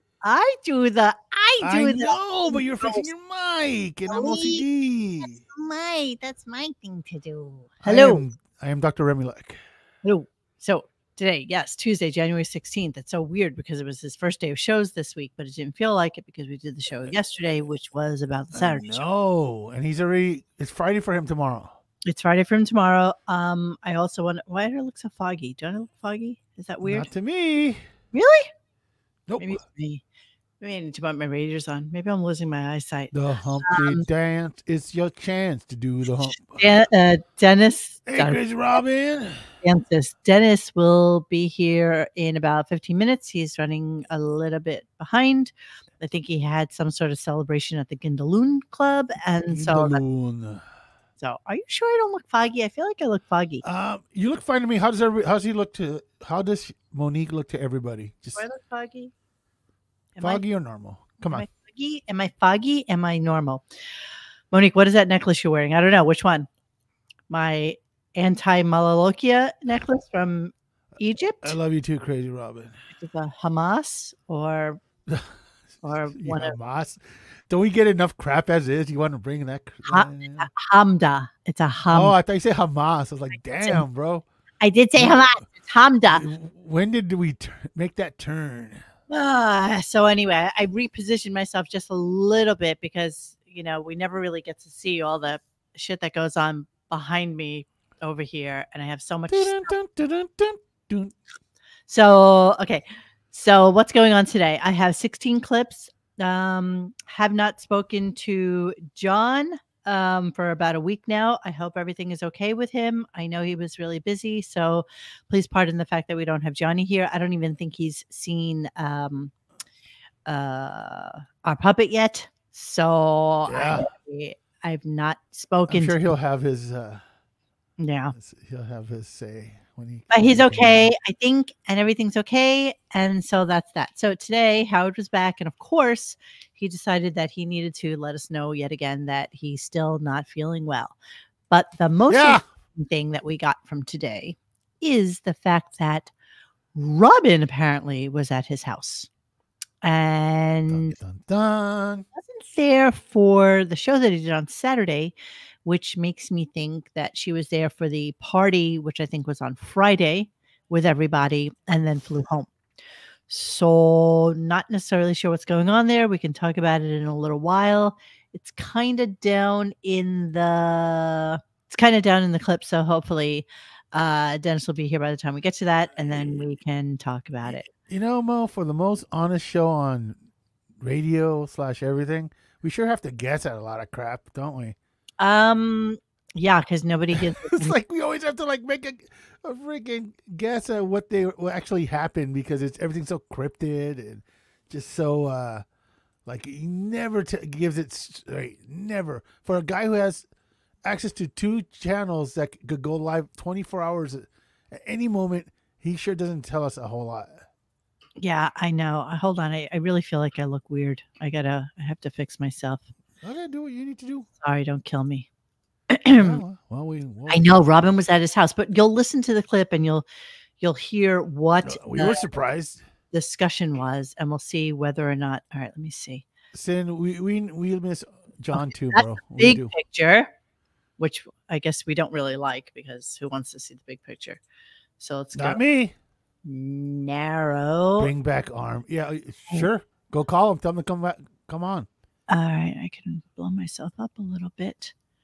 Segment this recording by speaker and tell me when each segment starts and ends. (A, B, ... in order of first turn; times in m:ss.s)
0:00.2-0:03.1 A
0:01.6-0:05.4 B
0:04.1-0:04.6 A
0:05.5-0:08.2 A
0:07.8-0:09.6 B
0:10.0-0:19.0 A
0:18.5-0:21.8 B
0:22.0-0:27.1 A
0:26.8-0:27.8 B
0:28.1-0:28.5 A
0:29.3-0:29.6 B
0:29.4-0:30.0 A
0:30.6-0:33.1 A
0:33.1-0:36.6 B
0:33.6-0:34.0 A
0:36.4-0:38.4 A
0:38.1-0:39.4 B
0:39.6-0:50.0 A
0:49.5-0:50.6 B
0:51.2-0:53.6 A
0:53.6-0:58.4 B
0:58.4-0:59.1 A
1:00.2-1:00.4 A
1:00.2-1:01.5 B
1:01.3-1:03.6 A
1:04.5-1:06.5 A
1:07.3-1:11.6 A
1:11.4-1:12.7 B
1:13.0-1:14.8 A
1:15.1-1:20.5 B
1:15.8-1:16.5 A
1:19.9-1:22.2 A
1:21.9-1:24.2 B
1:24.6-1:26.2 A
1:25.0-1:25.5 B
1:26.1-1:28.8 B
1:29.1-1:39.7 A
1:39.3-1:41.1 B
1:41.9-1:59.3 A
2:00.2-2:06.1 A
2:03.5-2:03.9 B
2:05.7-2:07.0 B
2:07.8-2:08.1 A
2:08.1-2:10.9 B
2:10.1-2:21.0 A
2:21.5-2:26.1 A
2:22.1-2:22.4 B
2:26.7-2:29.1 A
2:29.8-2:31.0 A
2:30.7-2:32.0 B
2:32.1-2:35.1 A
2:35.6-2:42.5 A
2:43.3-2:57.6 A
2:57.4-3:00.2 B
3:00.8-3:04.8 B
3:05.2-3:07.7 A
3:07.1-3:15.6 B
3:16.2-3:20.2 B
3:20.8-3:27.4 B
3:28.2-3:32.8 A
3:33.2-3:34.3 B
3:34.4-3:35.3 A
3:35.9-3:36.4 A
3:36.2-3:37.5 B
3:37.3-3:40.0 A
3:40.6-3:42.2 A
3:41.6-3:42.8 B
3:43.1-3:46.2 A
3:46.5-3:49.7 B
3:48.5-3:50.3 A
3:51.0-3:54.4 A
3:55.0-3:55.6 A
3:55.3-3:55.9 B
3:56.4-3:58.1 A
3:58.0-4:01.9 B
4:02.3-4:04.9 A